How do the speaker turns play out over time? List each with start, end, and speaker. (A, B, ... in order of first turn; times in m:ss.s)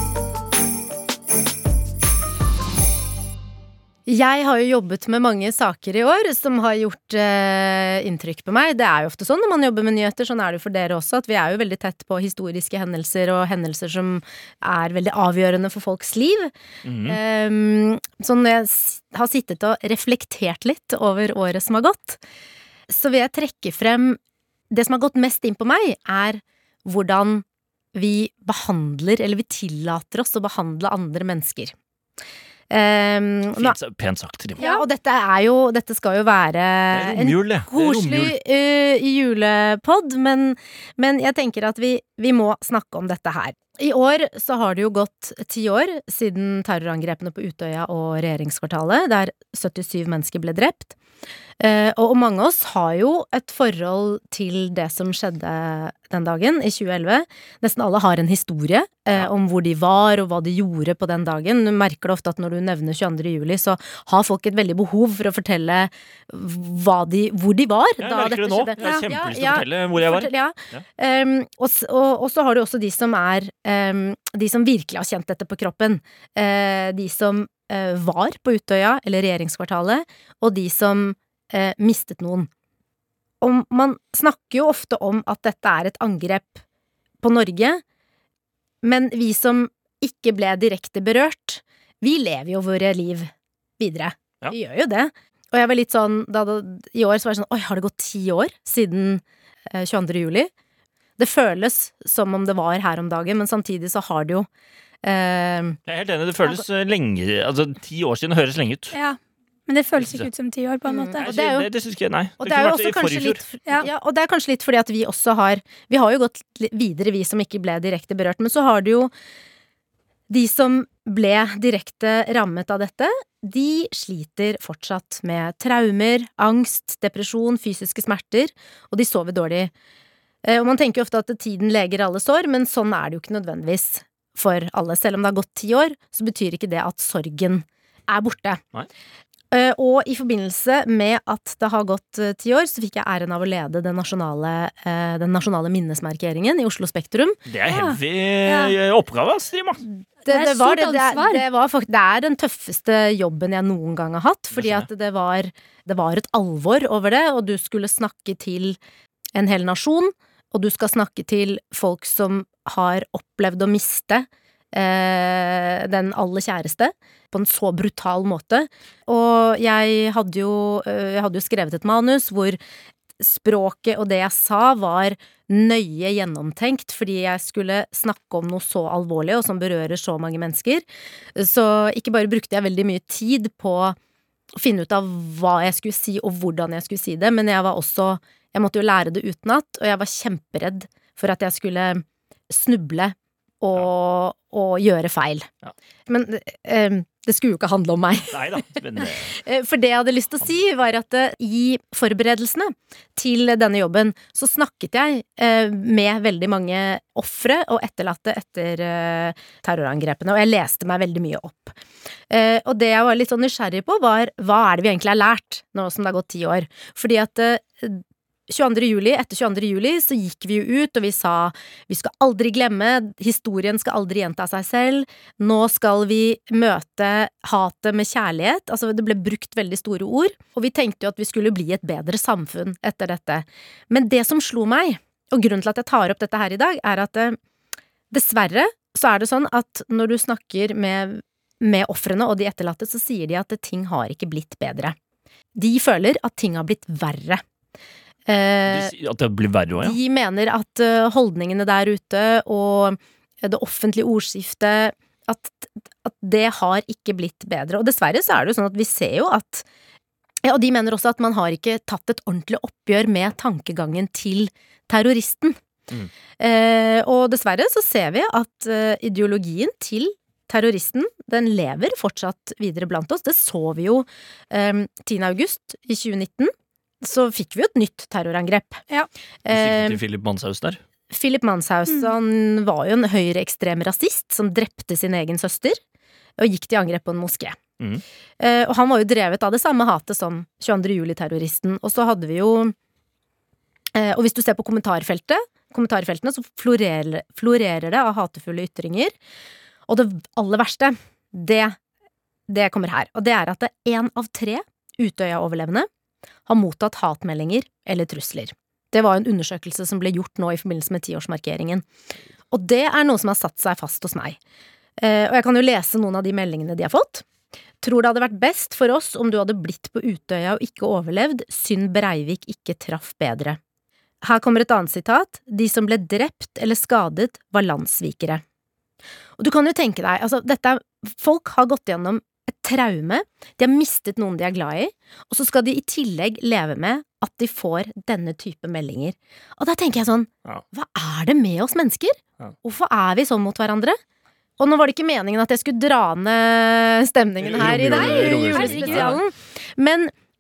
0:04.1-0:16.5 A
0:16.8-0:17.2 B
0:17.1-0:22.2 A
0:22.9-0:24.2 A
0:24.7-0:31.7 A
0:32.7-0:33.8 A
0:33.6-0:34.6 B
0:34.6-0:51.0 A
0:34.6-0:34.8 C
0:36.9-0:38.4 B
0:51.6-1:22.5 A
1:08.0-1:10.8 B
1:08.8-1:09.1 C
1:23.4-1:26.6 A
1:27.2-1:27.8 A
1:28.8-1:40.5 A
1:41.2-1:44.5 A
1:45.0-1:45.8 A
1:45.9-1:49.0 B
1:48.9-1:51.2 C
1:50.0-1:50.3 B
1:50.9-1:51.7 A
1:51.2-1:53.4 B
1:52.4-1:59.1 A
2:00.3-2:09.7 A
2:10.4-2:18.6 A
2:19.5-2:27.4 A
2:27.5-2:29.8 B
2:27.7-2:28.8 C
2:30.2-2:38.8 A
2:30.3-2:31.4 C
2:34.5-2:34.9 B
2:39.4-2:52.6 A
2:53.2-3:00.8 A
3:01.4-3:04.0 A
3:04.6-3:15.5 A
3:16.1-3:31.8 A
3:18.3-3:19.4 B
3:32.3-3:57.4 A
3:58.1-4:05.0 A
4:05.6-4:07.4 A
4:08.3-4:08.9 A
4:08.7-4:10.0 B
4:09.8-4:19.6 A
4:20.4-4:25.6 A
4:26.4-4:38.8 A
4:39.4-4:40.0 A
4:39.5-4:40.8 B
4:41.1-4:45.8 A
4:46.4-4:47.6 A
4:48.4-4:52.8 A
4:53.9-4:59.2 A
4:59.9-5:01.8 A
5:02.5-5:05.9 A
5:06.5-5:11.9 A
5:12.5-5:14.4 A
5:15.0-5:17.2 A
5:17.8-5:23.6 A
5:24.2-5:28.4 A
5:29.4-5:44.0 A
5:44.6-5:50.1 A
5:47.4-5:49.2 B
5:47.8-5:49.2 C